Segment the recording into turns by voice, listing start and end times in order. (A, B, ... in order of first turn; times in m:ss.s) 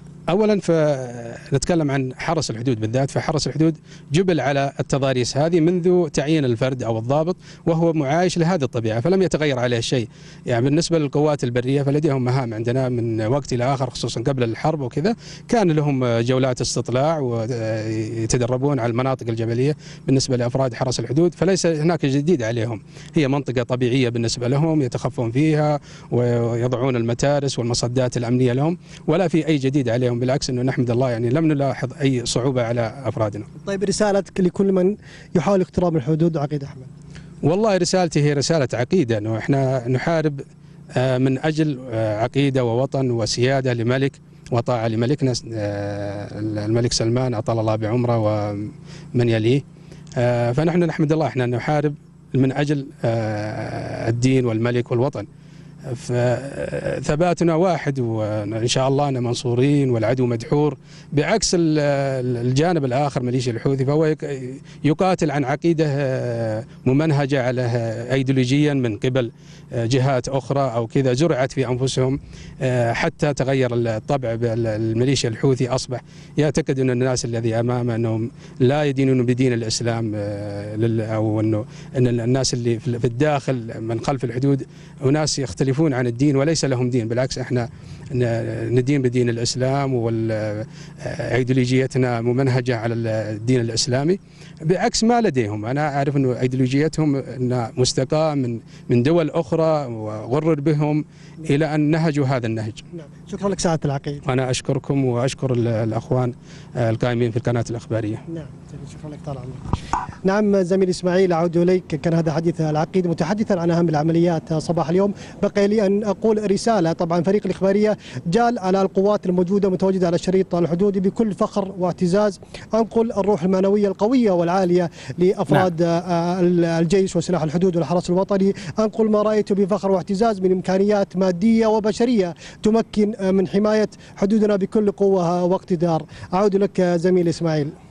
0:00.3-0:33.5 A
0:33.6-0:36.9 B
0:37.4-0:40.4 A
0:41.0-0:49.6 A
0:50.2-0:55.3 A
0:55.9-1:42.8 A
1:42.9-1:44.2 B
1:44.3-1:48.2 A
1:48.3-1:49.7 B
1:50.2-2:17.7 B